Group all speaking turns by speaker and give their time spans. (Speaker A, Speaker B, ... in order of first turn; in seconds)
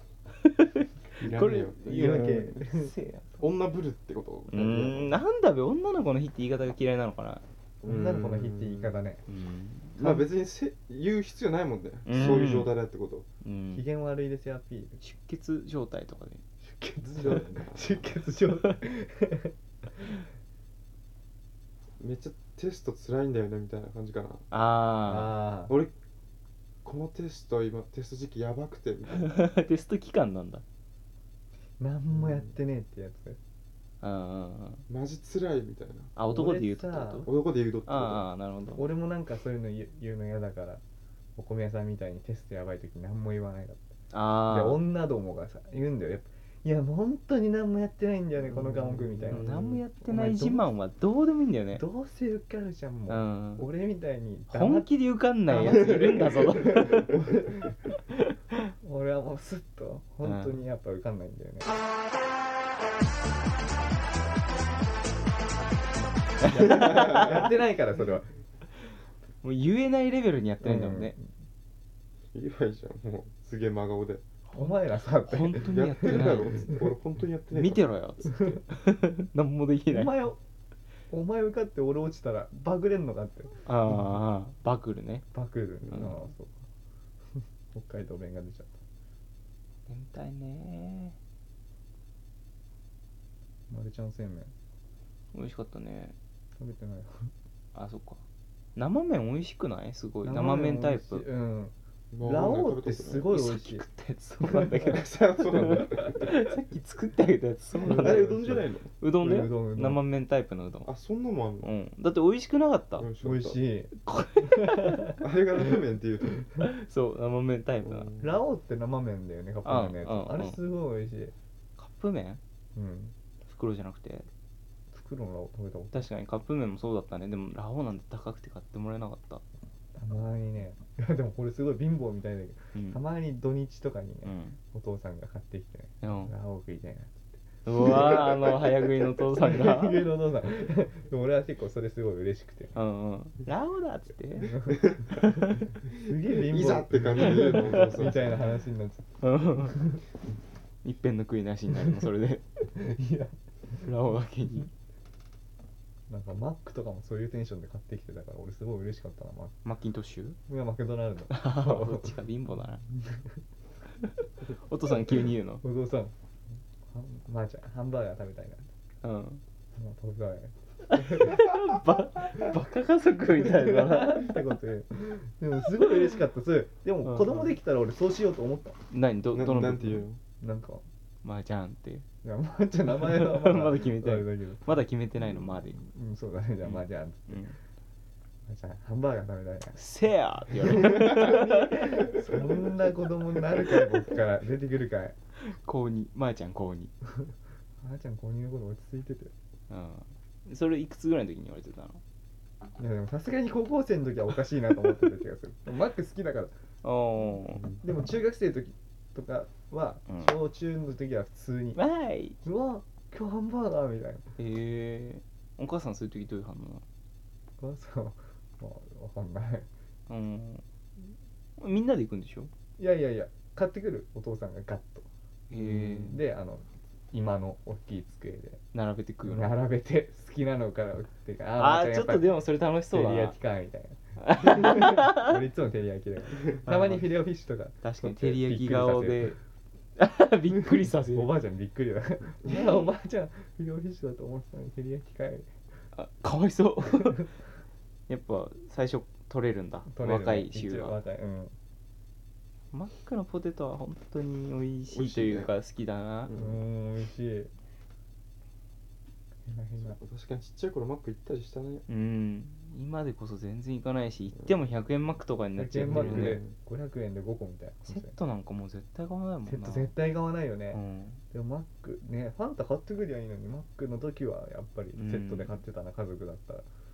Speaker A: 0.4-3.4, 4.5-7.4, 9.3-10.0, 12.1-12.7, 13.4-13.8, 15.0-16.4, 24.5-25.4, 29.1-30.6, 34.0-34.8, 36.1-37.3, 37.9-38.8, 44.1-44.8, 49.3-51.8, 53.1-53.7, 54.5-57.1, 58.1-58.6, 60.2-60.6, 66.4-67.5, 69.4-71.1, 74.5-76.7, 77.5-80.1, 83.6-85.2, 85.9-86.3, 89.9-91.1, 95.3-96.2, 97.7-98.2, 98.8-101.2, 103.3-110.9, 111.6-113.1, 114.0-115.2, 116.6-118.1, 119.6-120.6, 121.8-122.4, 123.5-124.3, 125.9-129.4, 134.2-134.6, 136.0-136.3, 137.7-140.1, 142.7-145.6, 147.2-147.8, 149.2-149.8, 150.8-152.4, 153.8-154.7, 159.6-160.4, 161.3-162.8, 164.0-165.6, 169.0-169.4, 170.9-174.4, 177.0-177.5, 178.9-180.0, 181.2-182.0, 182.9-185.8, 186.6-187.6, 189.8-192.4, 193.6-193.9, 195.4-196.9, 199.7-202.0, 206.8-207.7, 210.1-210.3, 211.8-212.4, 214.4-216.8, 220.1-220.6, 221.6-222.5, 225.5-226.2, 228.7-229.5, 231.6-233.3, 234.2-235.4, 236.6-237.0, 237.8-239.4, 240.0-241.3, 245.9-247.3, 248.1-250.9, 252.7-256.3, 261.9-266.4, 267.9-269.9, 270.7-271.2, 274.9-275.6
Speaker B: 1.2-2.6, 3.4-5.2, 7.8-9.0, 10.0-13.3, 17.0-18.1, 22.0-24.4, 25.7-25.9, 26.8-29.4, 34.9-36.1, 37.2-38.2, 49.1-49.6, 66.7-67.2, 72.3-74.2, 75.6-77.8, 102.1-103.3, 104.9-106.2, 107.8-108.9, 110.8-111.7, 113.0-113.6, 115.1-116.5, 117.8-118.4, 146.3-148.4, 179.3-180.2, 254.9-255.5, 256.3-256.6, 259.8-261.8, 265.8-266.5
Speaker C: 1.8-2.9, 7.8-9.2, 13.7-15.0, 16.6-20.2, 25.1-25.8, 31.8-33.4, 36.2-37.3, 38.7-40.8, 41.4-43.9, 44.5-50.7, 51.7-54.9, 55.5-57.7, 58.8-61.7, 66.4-68.3, 70.6-71.2, 74.5-76.9, 78.3-78.6, 79.9-80.4, 81.1-83.6, 85.3-86.7, 87.3-88.8, 93.7-94.5, 96.6-97.3, 100.2-103.8, 104.4-104.9, 107.8-110.0, 113.2-115.8, 118.2-121.3, 122.7-123.1, 124.9-126.1, 129.9-138.6, 139.2-142.8, 144.4-149.1, 149.7-150.0, 152.8-153.3, 156.1-159.6, 160.5-162.2, 162.8-163.4, 164.9-166.1, 166.9-168.7, 169.8-171.6, 173.6-178.8, 180.4-180.8, 182.2-184.7, 185.3-187.4, 188.5-189.8, 190.6-195.1, 197.8-199.3, 202.8-206.5, 207.8-211.8, 212.4-214.3, 217.6-219.7, 222.8-225.1, 225.6-228.6, 229.2-232.3, 232.9-239.3, 241.1-245.5, 246.9-247.3, 249.9-251.5, 256.3-257.5, 259.4-260.0, 265.6-268.2, 269.4-270.8, 271.3-276.6